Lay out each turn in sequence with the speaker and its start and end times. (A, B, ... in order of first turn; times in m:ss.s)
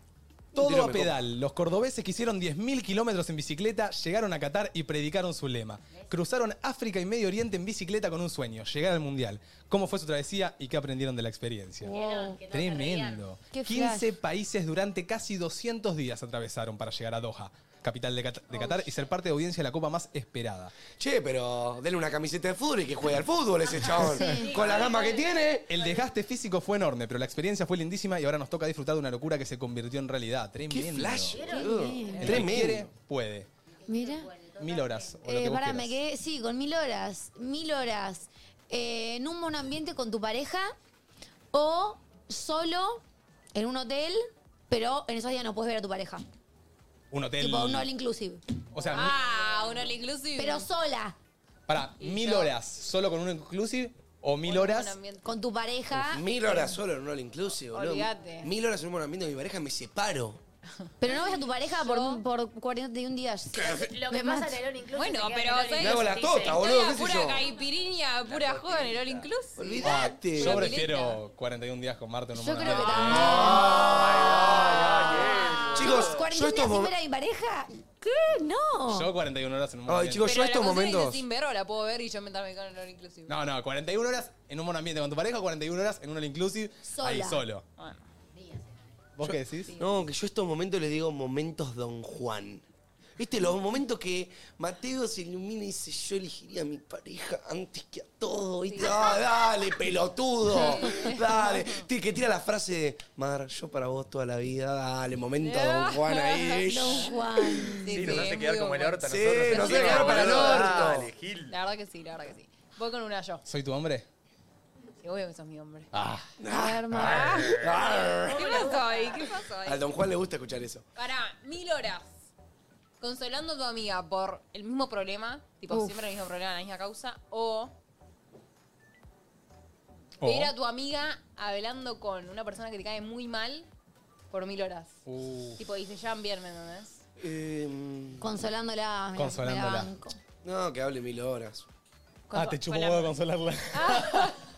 0:00.5-0:20.7 A
0:00.5-0:01.2 B
0:11.8-0:13.2 C
0:11.8-0:12.4 D
0:13.5-0:14.1 D
0:21.0-0:25.7 B
0:23.9-0:26.1 C
0:24.0-0:24.5 A
0:24.0-0:24.6 D
0:25.7-0:31.4 A
0:30.7-0:32.9 B
0:31.3-0:32.4 C
0:31.5-0:32.5 D
0:32.2-0:33.5 A
0:33.8-0:35.2 C
0:33.9-0:34.3 D
0:34.6-0:36.0 A
0:35.2-0:40.8 D
0:41.5-0:43.0 D
0:43.5-0:46.2 D
0:47.1-0:47.9 A
0:47.4-0:48.4 D
0:48.7-0:49.2 A
0:48.9-0:50.7 E
0:50.4-0:51.2 D
0:51.7-0:55.0 A
0:52.0-0:52.5 E
0:54.4-0:55.3 E
0:55.2-0:56.7 D
0:55.9-1:00.4 B
0:57.7-0:58.5 E
1:01.0-1:04.6 D
1:01.8-1:02.2 E
1:03.6-1:03.9 B
1:03.6-1:06.7 C
1:04.9-1:11.2 E
1:05.8-1:07.4 B
1:08.3-1:09.2 F
1:09.6-1:10.7 B
1:09.8-1:14.0 A
1:12.4-1:19.1 D
1:13.3-1:16.3 F
1:13.6-1:14.3 B
1:15.7-1:16.9 B
1:18.9-1:20.4 A
1:19.9-1:21.2 B
1:20.2-1:23.3 E
1:23.3-1:27.6 A
1:26.9-1:27.4 D
1:27.8-1:28.1 E
1:28.3-1:28.9 C
1:29.2-1:29.8 A
1:29.2-1:32.6 B
1:29.6-1:30.0 E
1:33.2-1:47.8 B
1:38.7-1:39.2 E
1:40.5-1:41.8 E
1:45.4-1:47.1 E
1:46.7-1:48.3 D
1:47.8-1:51.0 E
1:47.9-1:51.6 F
1:49.0-1:51.1 B
1:51.5-1:53.4 E
1:53.5-1:54.1 A
1:55.0-1:55.9 E
1:55.9-1:56.3 A
1:56.4-1:58.7 B
1:56.5-1:57.5 D
1:57.0-1:59.8 E
1:58.7-1:59.0 C
1:59.6-2:00.8 B
2:01.0-2:02.1 E
2:03.0-2:07.7 E
2:05.7-2:06.0 D
2:10.2-2:10.5 A
2:10.2-2:13.7 E
2:14.3-2:15.0 E
2:15.1-2:15.6 A
2:15.6-2:17.0 E
2:17.2-2:18.3 B
2:18.2-2:20.2 D
2:19.2-2:19.9 A
2:20.4-2:21.7 B
2:22.3-2:23.1 E
2:22.3-2:24.3 A
2:23.7-2:24.4 E